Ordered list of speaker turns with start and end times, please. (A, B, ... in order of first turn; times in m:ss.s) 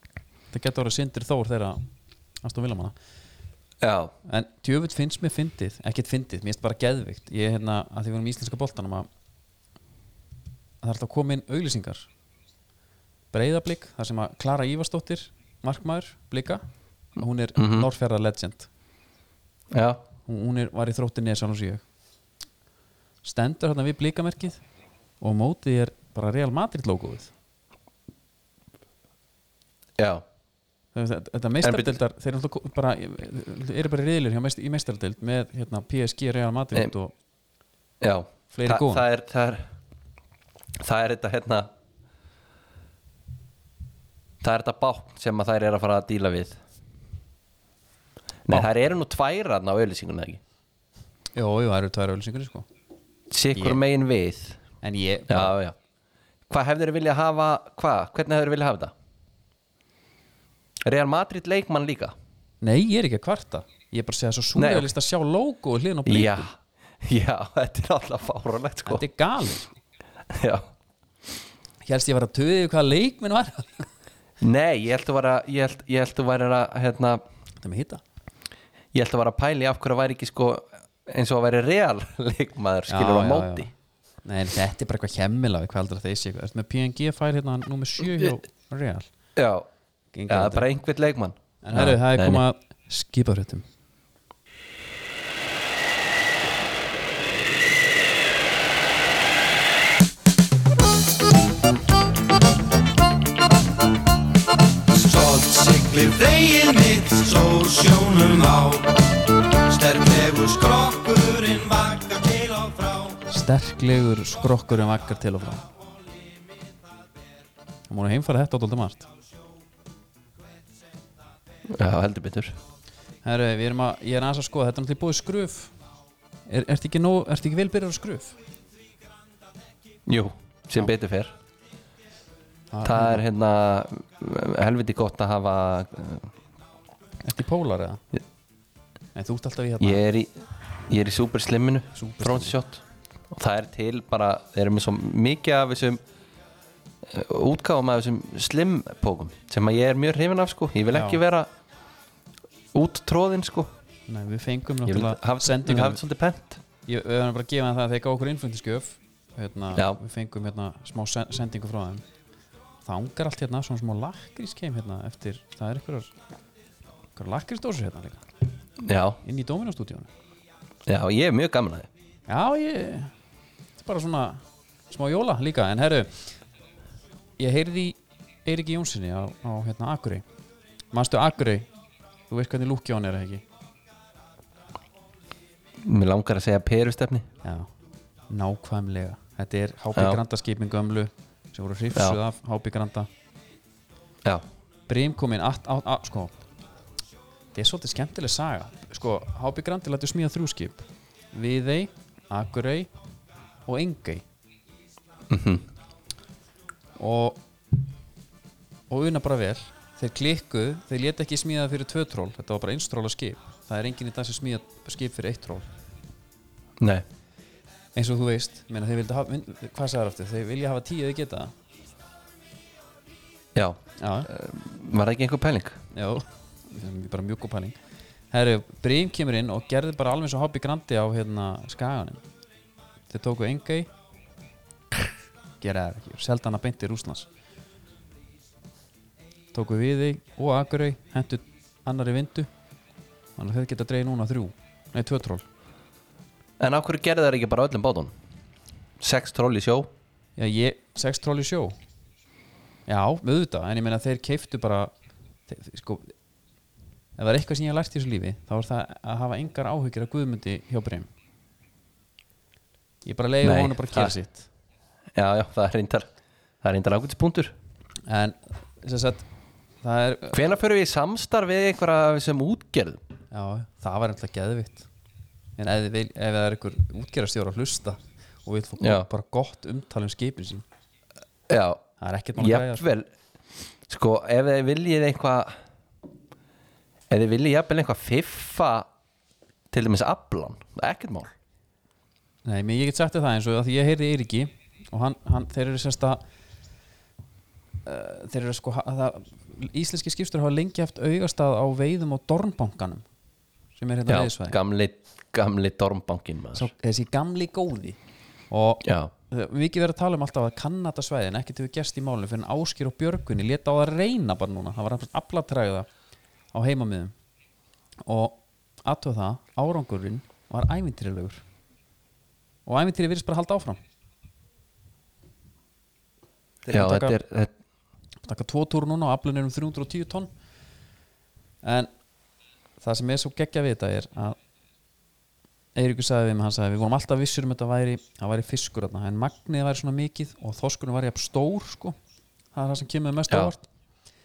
0:00.5-0:01.8 A
0:02.4-0:02.9 A
0:03.8-0:04.1 B
0:04.2-0:09.1 A
0:10.8-0:12.1 A
0:13.3-0:16.6 A
0:17.2-0:18.7 A
0:17.6-0:17.9 B
0:19.7-0:20.0 B
0:20.2-0:21.8 A
0:23.2-0:24.6 A
0:25.2-0:27.3 A
0:30.0-0:30.2 B
0:30.9-0:37.1 A
0:31.6-0:32.0 B
0:38.0-0:39.6 B
0:38.5-0:39.0 A
0:40.8-0:41.7 B
0:44.4-0:46.6 B
0:48.5-0:50.4 B
0:51.3-0:52.7 A
0:53.3-0:54.6 B
0:53.5-0:53.8 A
0:54.8-0:55.5 A
0:55.3-0:55.7 B
0:56.5-0:58.9 B
1:00.8-1:02.1 B
1:02.6-1:06.5 A
1:04.6-1:04.9 B
1:06.0-1:09.0 B
1:08.8-1:09.8 A
1:10.3-1:10.7 B
1:11.8-1:13.9 A
1:14.4-1:17.2 B
1:17.6-1:18.0 A
1:18.9-1:23.7 B
1:22.9-1:23.7 A
1:24.2-1:29.1 A
1:29.4-1:29.7 B
1:30.1-1:30.7 A
1:30.3-1:32.4 B
1:31.6-1:33.6 A
1:44.9-1:53.2 C
1:53.3-1:55.6 A
1:57.9-1:59.1 A
2:01.7-2:02.6 B
2:03.2-2:05.7 A
2:06.5-2:08.4 A
2:10.0-2:11.3 B
2:12.7-2:13.2 A
2:12.8-2:16.3 B
2:17.2-2:18.0 A
2:19.1-2:20.0 A
2:19.8-2:26.0 B
2:21.9-2:22.5 A
2:27.0-2:31.5 B
2:30.9-2:31.2 A
2:32.7-2:33.7 B
2:34.1-2:36.0 A
2:34.8-2:36.6 B
2:36.9-2:42.0 A
2:42.8-2:46.1 A
2:47.2-2:48.3 A
2:48.8-2:49.2 B
2:49.2-2:50.1 A
2:50.8-2:51.9 B
2:52.3-2:53.1 A
2:53.8-2:56.2 A
2:57.4-3:00.2 A
3:00.9-3:01.7 A
3:02.3-3:03.4 A
3:05.8-3:07.2 B
3:07.4-3:07.7 A
3:08.3-3:13.1 A
3:09.9-3:10.2 B
3:14.9-3:16.3 A
3:17.5-3:22.9 A
3:23.6-3:24.2 A
3:25.3-3:25.6 B
3:27.0-3:27.4 A
3:28.9-3:35.7 A
3:36.8-3:37.0 B
3:38.0-3:41.5 A
3:43.5-3:45.8 B
3:44.0-3:44.3 A
3:45.9-3:47.8 A
3:48.3-3:52.2 A
3:53.1-3:53.9 A
3:55.6-3:57.3 A
3:59.5-4:02.5 A
4:03.4-4:05.4 A
4:06.6-4:08.1 B
4:09.0-4:09.9 B
4:10.4-4:11.8 A
4:12.9-4:14.9 A
4:15.5-4:16.1 A
4:17.2-4:21.1 A
4:23.0-4:24.5 A
4:23.4-4:24.1 B
4:25.1-4:26.1 B
4:26.6-4:27.5 B
4:28.1-4:29.3 A
4:29.8-4:30.4 A
4:30.3-4:33.0 B
4:33.3-4:34.9 A
4:35.6-4:40.6 A
4:38.8-4:39.1 B
4:41.5-4:41.8 B
4:42.0-4:42.9 A
4:42.4-4:43.1 B
4:43.9-4:45.5 B
4:47.1-4:48.9 B
4:49.7-4:51.3 B
4:52.4-4:56.2 A
4:57.8-5:03.0 A
5:03.8-5:04.6 A
5:04.1-5:06.7 B
5:06.5-5:08.0 A
5:08.5-5:15.9 A
5:08.8-5:09.1 B
5:16.5-5:17.1 A
5:18.0-5:21.4 A
5:22.6-5:23.8 A
5:26.6-5:27.2 A
5:26.7-5:27.5 B
5:28.2-5:30.3 A
5:31.6-5:31.9 A
5:32.8-5:34.4 A
5:35.7-5:42.0 A
5:42.5-5:43.6 A